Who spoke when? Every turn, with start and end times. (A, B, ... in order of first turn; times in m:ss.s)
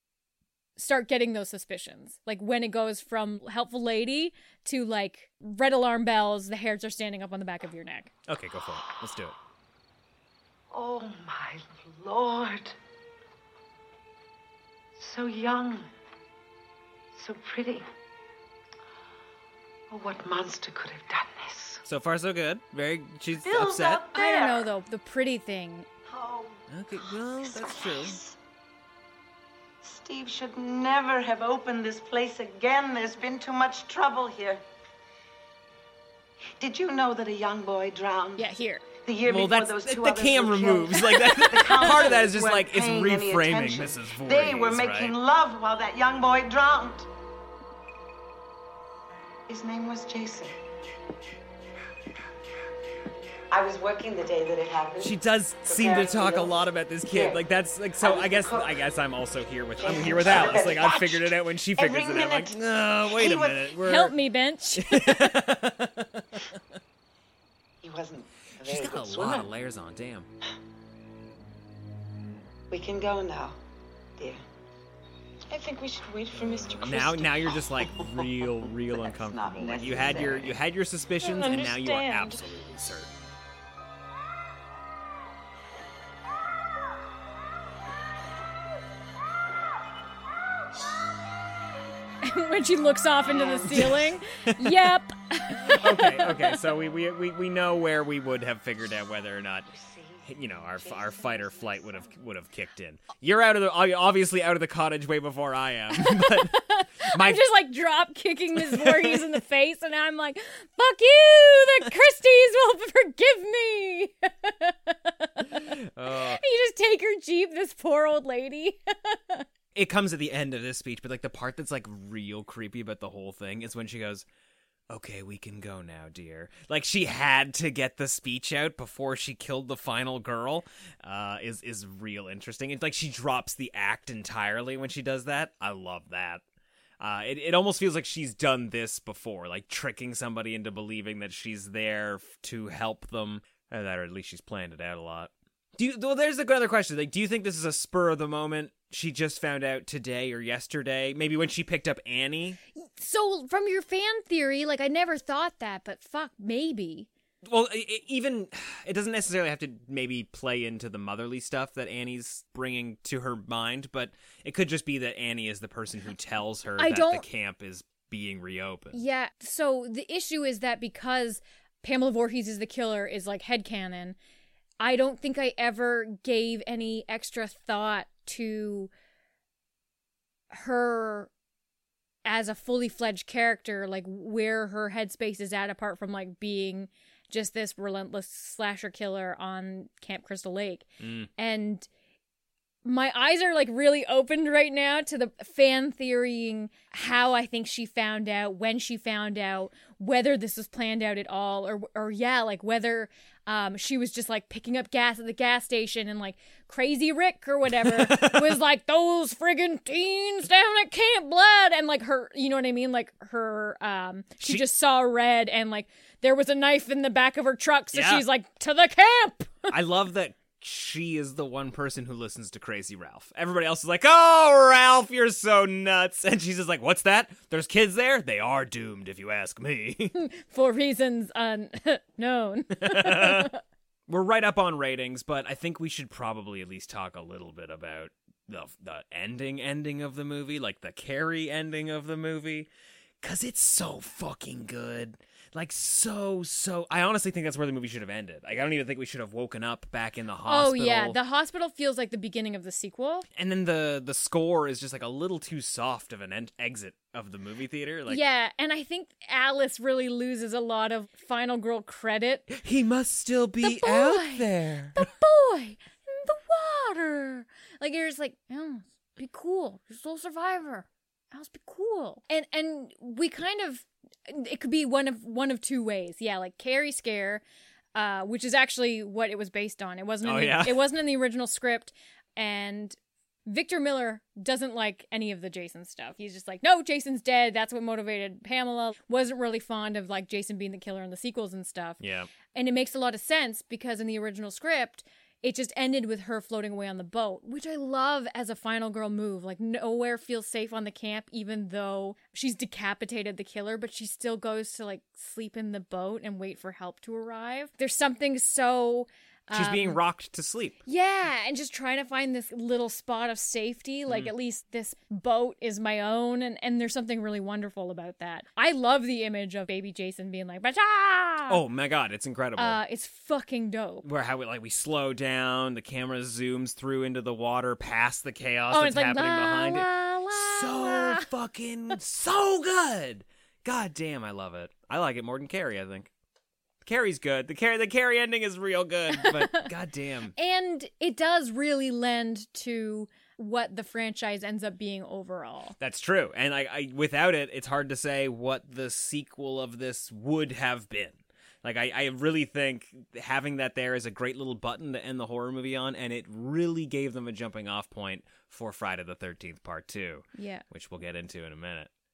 0:00.8-0:08.1 A
0:08.3-0:09.3 B
0:10.7-0:12.8 C
0:15.0-0:15.9 C
0:17.2-0:17.8 C
0:19.9-0:21.8 C
0:21.8-0:24.0 B
0:23.4-0:24.6 C
0:24.1-0:25.9 A
0:26.1-0:28.4 C
0:26.7-0:28.2 B
0:29.8-0:34.6 C
0:36.6-0:47.1 C
0:38.4-0:38.9 A
0:39.3-0:45.1 B
0:41.2-0:42.0 A
0:49.5-0:50.6 C
0:53.5-0:55.1 C
0:55.0-1:04.1 B
0:55.6-0:56.6 C
0:57.1-0:57.4 C
0:58.0-0:58.7 C
0:59.8-1:03.7 C
1:03.8-1:05.4 A
1:04.8-1:06.2 B
1:07.8-1:09.5 C
1:08.6-1:10.3 B
1:12.7-1:13.6 C
1:15.5-1:20.6 C
1:16.8-1:23.2 B
1:21.2-1:22.4 C
1:32.2-1:36.6 A
1:33.3-1:34.7 B
1:35.7-1:39.7 B
1:39.8-1:41.7 C
1:40.2-1:47.4 B
1:45.9-1:59.4 A
1:48.6-1:49.3 B
1:55.7-1:56.4 B
1:59.7-2:04.2 B
2:04.9-2:16.4 B
2:17.0-2:32.6 B
2:32.8-2:37.1 A
2:37.4-2:49.0 B
2:46.8-2:47.2 A
2:48.9-2:54.2 A
2:54.8-2:58.9 A
3:00.5-3:01.3 A
3:02.2-3:11.9 A
3:11.0-3:11.3 B
3:12.8-3:39.7 A
3:27.8-3:28.6 B
3:37.9-3:38.2 B
3:39.7-3:50.1 B
3:50.1-3:53.6 A
3:52.8-3:53.5 B
3:54.1-4:02.7 B
4:03.2-4:11.2 B
4:10.5-4:13.3 A
4:13.3-4:18.2 B
4:18.1-4:22.5 A
4:22.5-4:25.0 B
4:23.6-4:37.4 A
4:38.0-4:52.0 A
4:40.2-4:40.8 B
4:52.0-4:52.3 B
4:52.5-5:10.0 A
5:09.5-5:10.8 B
5:10.8-5:21.6 A
5:21.5-5:22.8 B
5:22.6-5:24.0 A
5:24.0-5:36.1 B
5:28.7-5:31.3 A
5:36.8-5:40.3 B
5:39.1-5:39.6 A
5:40.4-5:45.8 A
5:45.8-6:01.9 B
6:00.4-6:00.6 A